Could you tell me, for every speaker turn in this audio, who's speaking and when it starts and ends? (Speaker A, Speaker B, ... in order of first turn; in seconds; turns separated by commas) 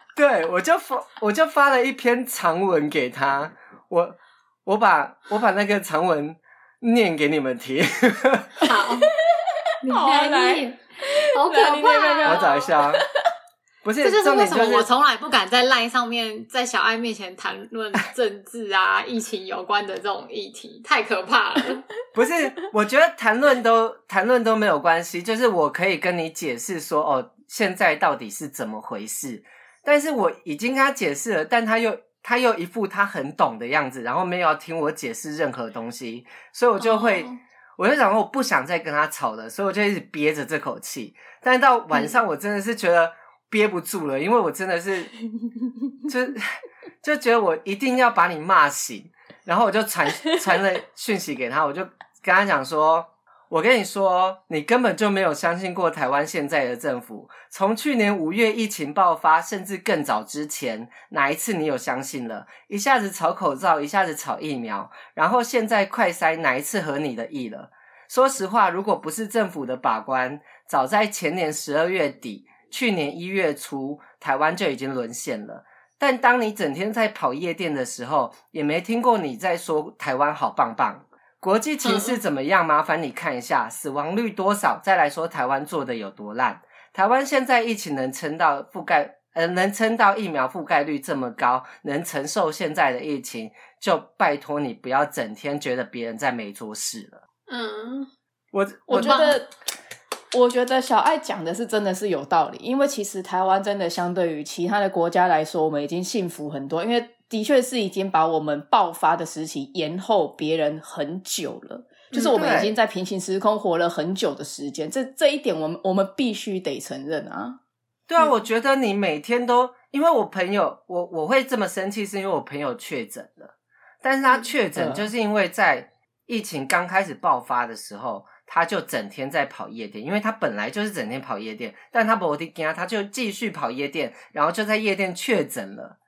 Speaker A: 0.1-8.7, Speaker B: 8.6-9.1, Speaker C: 9.1-13.0, Speaker B: 9.8-12.5, Speaker A: 12.2-13.0, Speaker A: 13.8-14.9, Speaker B: 14.0-21.9, Speaker A: 22.1-45.1, Speaker B: 36.8-37.4, Speaker A: 46.1-46.4, Speaker A: 47.0-97.2, Speaker B: 81.8-82.2, Speaker B: 97.5-98.1, Speaker A: 98.5-99.2, Speaker C: 98.9-99.5, Speaker B: 99.0-99.4, Speaker C: 100.3-117.6, Speaker A: 112.1-112.7, Speaker A: 118.1-136.0, Speaker C: 124.8-125.1